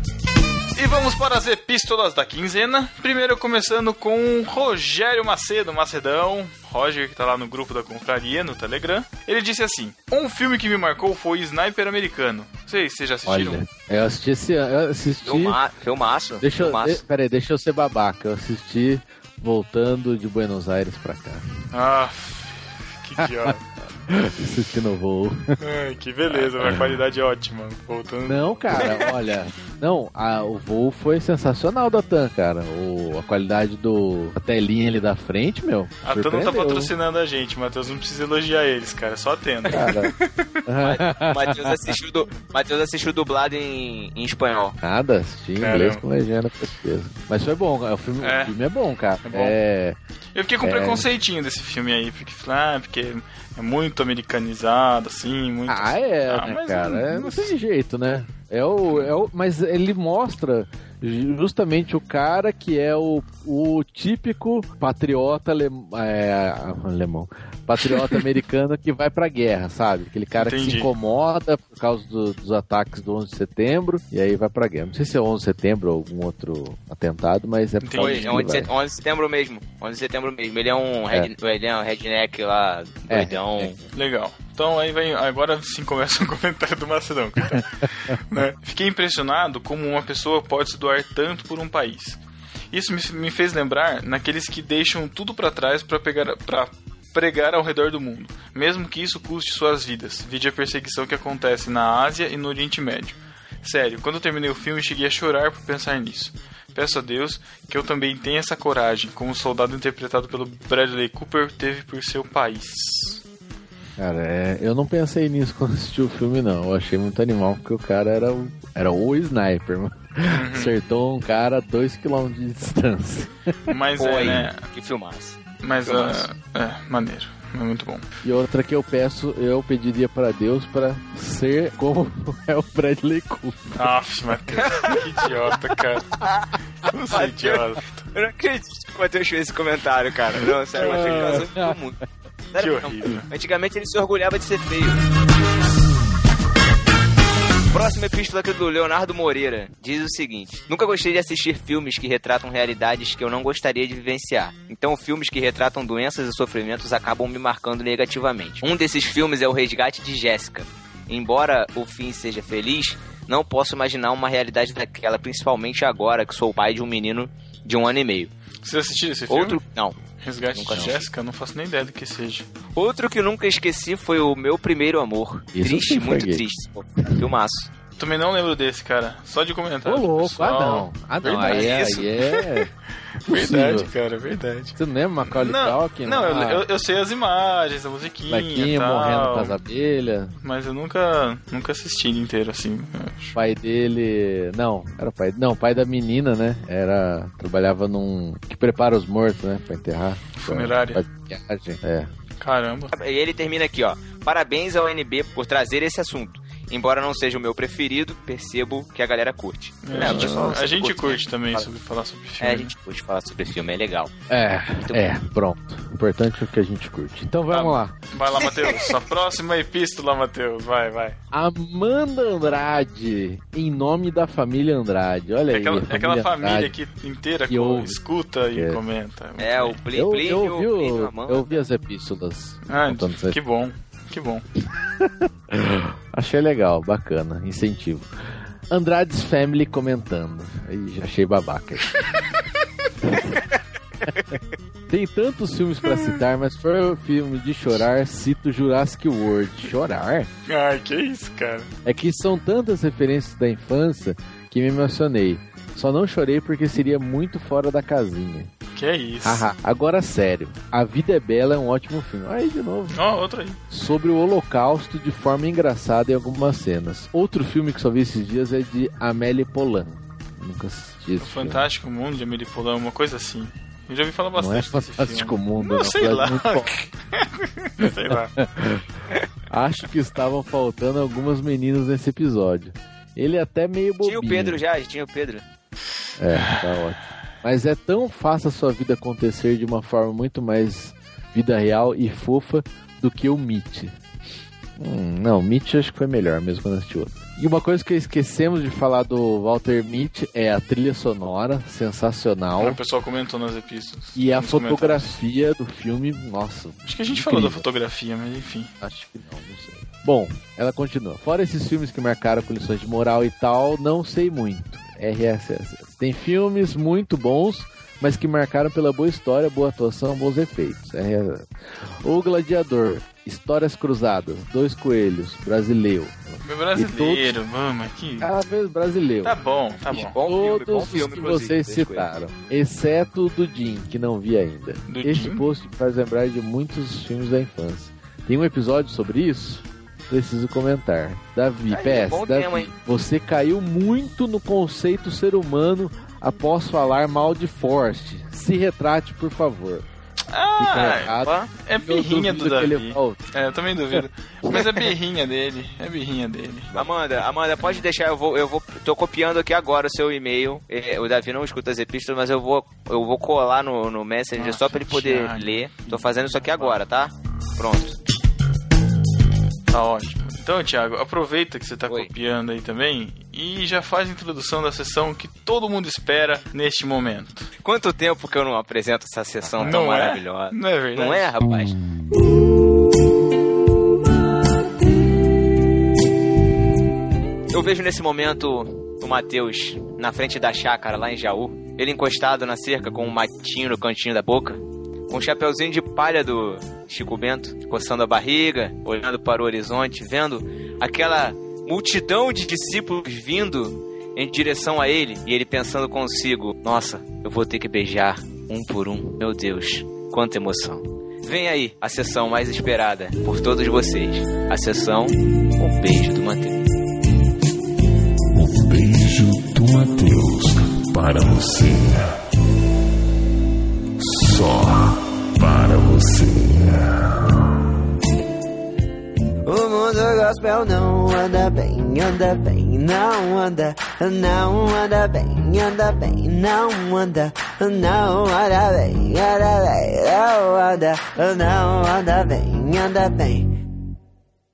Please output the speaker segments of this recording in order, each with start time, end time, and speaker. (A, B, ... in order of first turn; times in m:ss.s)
0:00.8-0:13.7 A
0:13.3-0:15.6 B
0:15.2-0:17.0 C
0:16.4-0:21.4 B
0:21.7-0:23.6 A
0:23.2-0:23.5 B
0:24.1-0:25.6 B
0:25.6-0:29.2 A
0:26.3-0:27.0 B
0:28.3-0:36.9 B
0:36.0-0:40.4 A
0:39.7-0:40.1 B
0:40.7-0:42.0 B
0:40.8-0:44.8 C
0:44.8-0:50.0 B
0:45.6-0:46.0 A
0:48.2-0:48.6 A
0:49.2-0:49.6 A
0:50.4-0:57.5 A
0:50.6-0:51.1 B
0:55.7-1:18.7 B
1:10.4-1:10.9 A
1:17.8-1:18.4 A
1:18.0-1:23.8 C
1:23.1-1:23.8 B
1:23.9-1:32.2 A
1:32.7-1:53.2 A
1:54.0-2:03.8 B
2:00.3-2:00.8 A
2:03.7-2:04.6 A
2:04.0-2:06.3 C
2:05.6-2:08.0 A
2:08.2-2:13.8 B
2:13.8-2:16.2 A
2:14.6-2:15.0 C
2:16.9-2:18.0 A
2:17.1-2:17.6 C
2:18.1-2:22.0 C
2:20.8-2:21.5 A
2:20.8-2:21.8 B
2:22.5-2:25.0 C
2:22.6-2:23.3 A
2:27.7-2:48.3 C
2:48.6-2:49.6 A
2:49.3-2:50.0 C
2:50.2-2:52.5 A
2:50.5-2:51.0 C
2:52.8-2:57.7 C
2:55.5-2:56.4 B
2:58.0-3:02.4 A
2:59.8-3:02.7 B
3:01.3-3:02.1 C
3:03.2-3:03.9 B
3:03.2-3:09.6 A
3:04.8-3:06.7 B
3:08.3-3:10.3 B
3:10.4-3:13.4 A
3:13.4-3:22.1 B
3:20.4-3:21.0 A
3:22.4-3:22.9 A
3:22.9-3:31.7 C
3:29.8-3:32.7 A
3:29.9-3:30.7 B
3:32.4-3:34.1 C
3:34.3-3:38.0 B
3:34.8-3:35.1 C
3:37.5-3:41.2 A
3:38.4-3:38.9 C
3:41.3-3:46.7 B
3:45.5-3:49.8 A
3:47.5-3:48.0 B
3:48.5-3:48.8 B
3:49.4-3:51.6 C
3:49.9-3:53.4 B
3:52.7-3:54.4 A
3:55.0-3:58.1 B
3:58.7-4:01.9 B
4:03.0-4:03.4 B
4:04.9-4:10.3 B
4:10.5-4:11.7 A
4:11.8-4:18.5 B
4:18.8-4:19.5 A
4:19.2-4:23.0 B
4:22.9-4:23.6 A
4:23.7-4:31.7 B
4:31.2-4:38.3 A
4:34.4-4:36.7 B
4:37.8-4:38.9 B
4:39.5-4:44.6 B
4:44.0-4:45.4 C
4:46.2-4:54.0 B
4:46.4-4:46.6 A
4:54.8-5:02.8 B
5:02.6-5:05.2 A
5:04.2-5:07.6 B
5:06.9-5:08.7 A
5:08.8-5:21.5 B
5:22.0-5:27.4 B
5:26.4-5:28.3 A
5:28.2-5:29.4 B
5:29.2-5:30.2 A
5:29.9-5:32.1 C
5:29.9-5:49.9 B
5:34.9-5:35.4 A
5:41.7-5:42.7 C
5:50.3-5:56.8 A
5:50.6-5:53.2 B
5:50.9-5:51.5 C
5:56.7-6:08.0 C
6:04.4-6:06.8 A
6:09.7-6:17.5 A
6:17.6-6:21.8 C
6:19.6-6:21.3 A
6:27.5-6:56.6 C
6:58.3-7:02.2 D
7:04.0-7:07.2 D
7:09.5-7:23.4 E